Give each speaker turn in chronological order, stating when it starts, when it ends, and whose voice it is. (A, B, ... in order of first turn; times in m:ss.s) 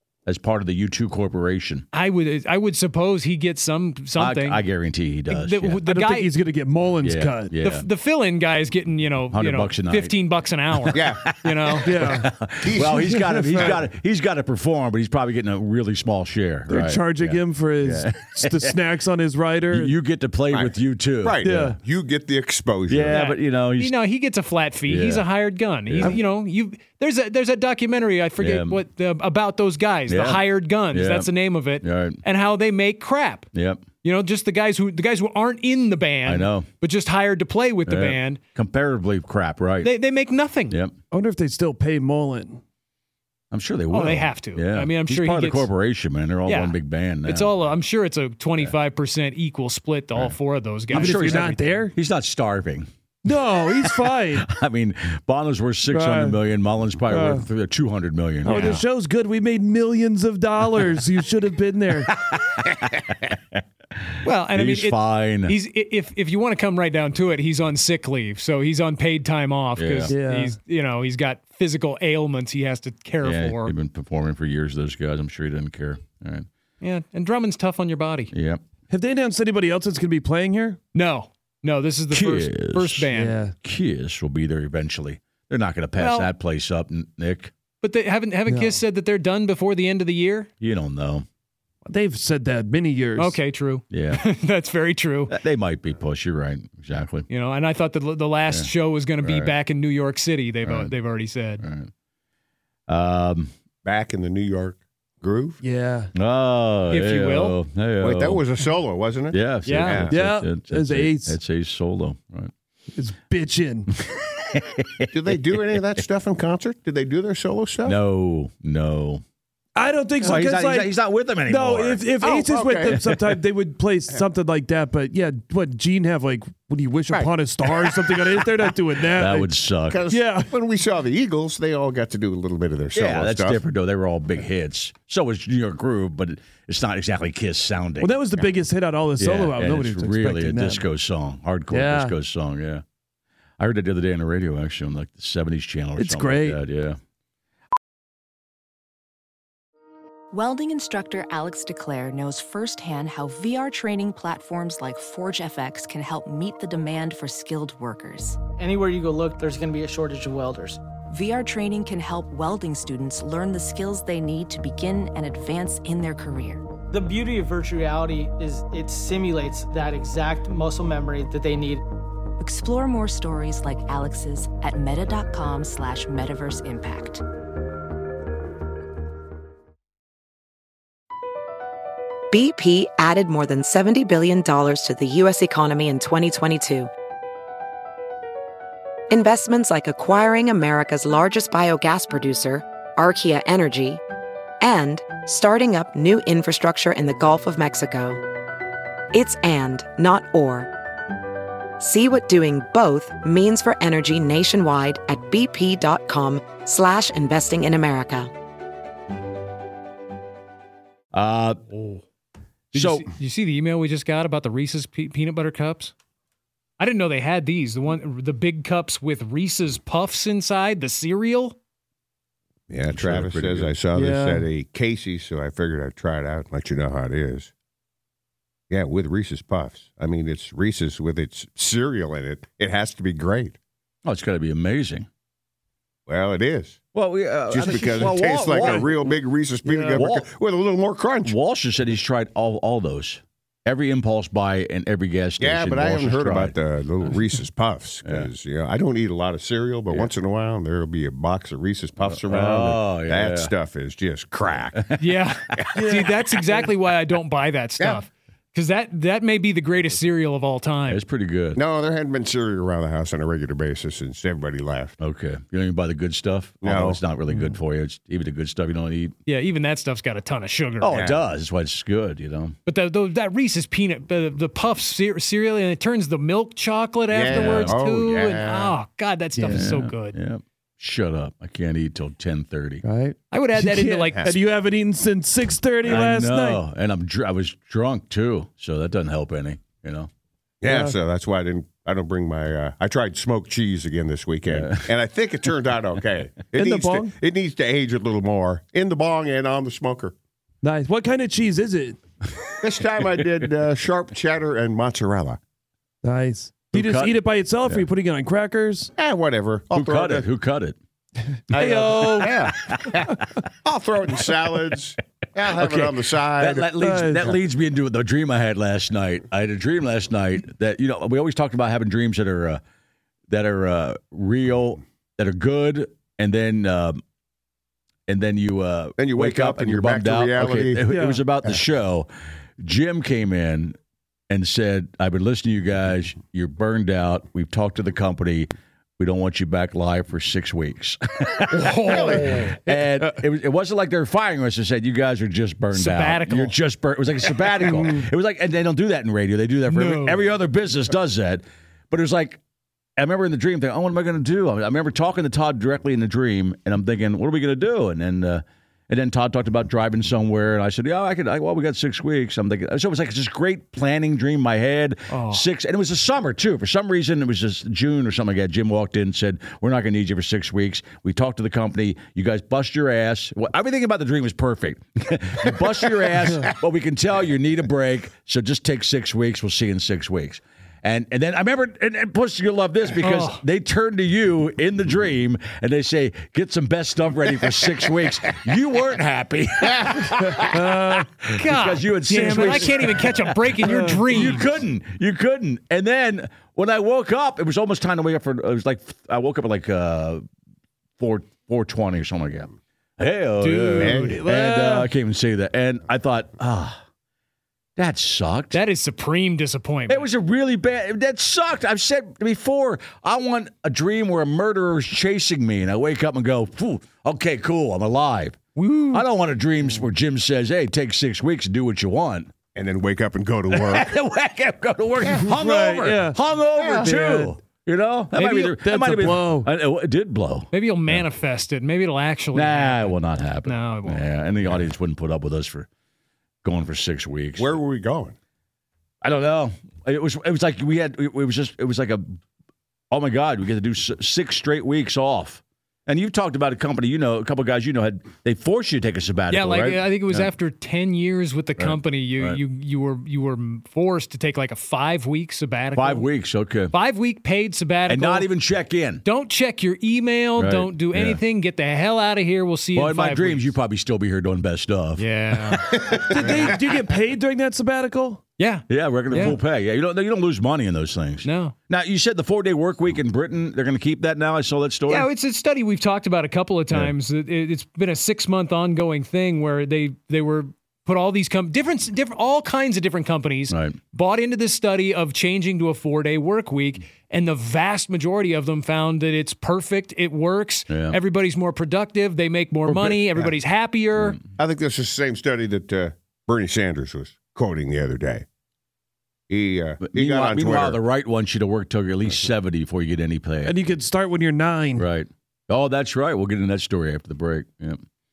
0:00.3-0:01.9 A
0:01.9-0:04.7 B
0:04.2-0:05.8 A
0:05.3-0:06.3 B
0:05.9-0:07.6 C
0:07.0-0:07.9 A
0:07.6-0:11.9 B
0:09.3-0:10.2 A
0:10.8-0:18.8 A
0:10.9-0:11.2 D
0:11.8-0:13.8 C
0:12.6-0:13.8 D
0:16.7-0:19.9 C
0:19.7-0:21.8 A
0:20.5-0:23.2 D
0:21.4-0:21.8 C
0:22.9-0:24.0 A
0:23.1-0:33.5 B
0:24.9-0:25.3 A
0:25.9-0:26.2 A
0:28.4-0:28.8 A
0:30.1-0:32.2 A
0:33.5-0:33.8 A
0:34.0-0:38.4 B
0:36.2-0:36.7 A
0:37.9-0:39.9 A
0:39.8-0:40.8 B
0:40.7-0:41.0 A
0:41.1-0:42.6 C
0:43.5-0:47.6 A
0:43.9-0:45.7 B
0:46.5-0:51.8 B
0:50.9-0:52.9 A
0:50.9-0:52.0 C
0:53.2-0:54.5 C
0:53.7-0:58.8 A
0:55.9-0:56.4 C
0:57.0-0:57.5 C
0:58.4-1:02.1 C
0:58.5-0:58.8 B
1:02.1-1:03.6 A
1:04.2-1:13.7 B
1:04.5-1:05.6 A
1:09.8-1:10.1 A
1:10.1-1:10.6 C
1:13.2-1:16.5 A
1:16.8-1:18.3 B
1:18.3-1:18.6 A
1:18.9-1:20.8 C
1:20.9-1:23.4 B
1:22.1-1:23.1 A
1:23.1-1:23.5 C
1:23.6-1:27.5 A
1:26.0-1:26.3 B
1:27.8-1:30.5 B
1:28.5-1:28.8 C
1:30.6-1:31.2 A
1:31.8-1:33.4 C
1:33.2-1:35.4 B
1:33.9-1:34.2 A
1:35.3-1:37.3 A
1:37.3-1:41.6 B
1:38.5-1:39.5 A
1:40.6-1:40.9 A
1:41.6-1:41.9 A
1:42.9-1:43.5 A
1:43.8-1:45.6 D
1:45.6-1:46.1 C
1:46.2-1:48.4 A
1:46.9-1:47.6 B
1:48.0-1:50.2 D
1:49.3-1:52.5 A
1:49.7-1:50.1 B
1:50.1-1:51.4 C
1:52.9-1:53.9 C
1:54.1-1:55.1 A
1:55.1-1:58.0 D
1:57.8-1:59.2 A
1:59.8-2:09.6 C
2:00.2-2:02.1 A
2:02.2-2:03.0 D
2:02.9-2:03.4 A
2:07.1-2:08.1 D
2:09.2-2:10.0 A
2:09.9-2:13.6 D
2:10.1-2:10.5 C
2:12.9-2:18.4 A
2:18.0-2:20.8 C
2:19.2-2:22.8 A
2:21.7-2:22.2 C
2:23.6-2:27.0 A
2:26.0-2:26.6 C
2:30.3-2:38.4 E
2:38.6-2:40.8 F
2:41.1-2:46.6 E
2:46.9-2:51.8 F
2:52.4-2:57.2 E
3:02.3-3:06.9 G
3:09.1-3:14.0 G
3:14.6-3:18.2 G
3:19.1-3:20.7 G
3:21.8-3:28.3 G
3:31.1-3:31.6 A
3:31.7-3:32.0 B
3:32.7-3:33.1 A
3:32.7-3:35.9 B
3:36.8-3:41.6 B
3:42.7-3:47.5 D
3:42.9-3:43.8 A
3:43.9-3:44.5 C
3:48.7-3:53.6 D
3:54.0-3:55.1 A
3:56.1-3:56.8 D
3:56.9-3:58.9 A
3:57.5-4:01.3 D
3:58.5-3:58.9 C
3:59.7-4:00.0 C
4:00.0-4:00.3 A
4:01.2-4:06.6 A
4:05.4-4:15.0 D
4:12.0-4:13.5 A
4:15.0-4:21.0 B
4:15.8-4:16.6 C
4:20.9-4:21.6 A
4:21.6-4:25.0 D
4:25.0-4:29.2 A
4:26.6-4:27.0 D
4:27.3-4:27.5 C
4:29.3-4:31.0 B
4:30.8-4:32.6 A
4:30.9-4:31.2 D
4:32.7-4:40.2 B
4:37.1-4:38.8 D
4:37.3-4:37.8 A
4:39.4-4:39.8 C
4:39.5-4:42.8 A
4:42.8-4:46.6 C
4:43.3-4:44.4 B
4:45.8-4:50.1 A
4:50.6-5:00.2 D
4:50.6-4:51.0 C
4:54.5-4:54.9 A
4:56.6-4:57.1 C
5:00.6-5:02.0 C
5:02.6-5:05.4 D
5:06.0-5:08.9 C
5:06.7-5:07.9 A
5:09.0-5:10.3 D
5:09.7-5:10.8 A
5:11.5-5:16.7 D
5:11.5-5:12.4 C
5:12.2-5:12.8 A
5:15.5-5:22.6 A
5:16.8-5:17.4 C
5:23.3-5:27.0 A
5:28.1-5:32.1 A
5:29.0-5:30.9 D
5:30.9-5:31.2 C
5:32.6-5:33.8 A
5:34.3-5:52.4 A
5:41.5-5:42.6 B
5:41.9-5:42.4 D
5:45.7-5:46.6 B
5:49.7-5:50.2 B
5:53.0-6:40.2 A
6:05.1-6:05.4 B
6:23.0-6:23.4 B
6:30.5-6:31.0 C
6:31.3-6:34.5 B
6:33.6-6:34.0 C
6:41.0-6:46.8 A
6:43.4-6:44.2 B
6:43.8-6:44.2 D
6:43.9-6:44.9 C
6:47.8-6:48.6 A
6:48.5-6:50.1 B
6:49.9-7:02.3 A
7:02.6-7:03.9 D
7:03.5-7:11.0 A
7:05.0-7:05.3 D
7:05.2-7:06.2 C
7:06.5-7:06.9 D
7:06.8-7:07.4 C
7:08.1-7:09.5 C
7:10.5-7:14.1 B
7:12.3-7:15.7 A
7:16.4-7:17.6 A
7:17.4-7:18.2 D
7:19.0-7:22.2 A
7:22.9-7:30.3 A
7:29.3-7:36.1 B
7:31.6-7:32.4 A
7:35.7-7:36.7 A
7:36.7-7:38.3 B
7:37.9-7:39.0 A
7:39.0-7:43.6 B
7:40.4-7:41.2 A
7:42.7-7:46.5 A
7:45.0-7:45.6 B
7:46.0-7:48.2 C
7:48.4-7:49.4 B
7:48.7-7:55.1 A
7:51.2-7:51.6 B
7:54.9-8:14.2 B
8:03.5-8:03.8 A
8:10.7-8:11.0 A
8:14.4-8:18.3 D
8:19.3-8:20.8 D
8:19.8-8:23.6 A
8:23.4-8:24.9 C
8:24.8-8:27.8 A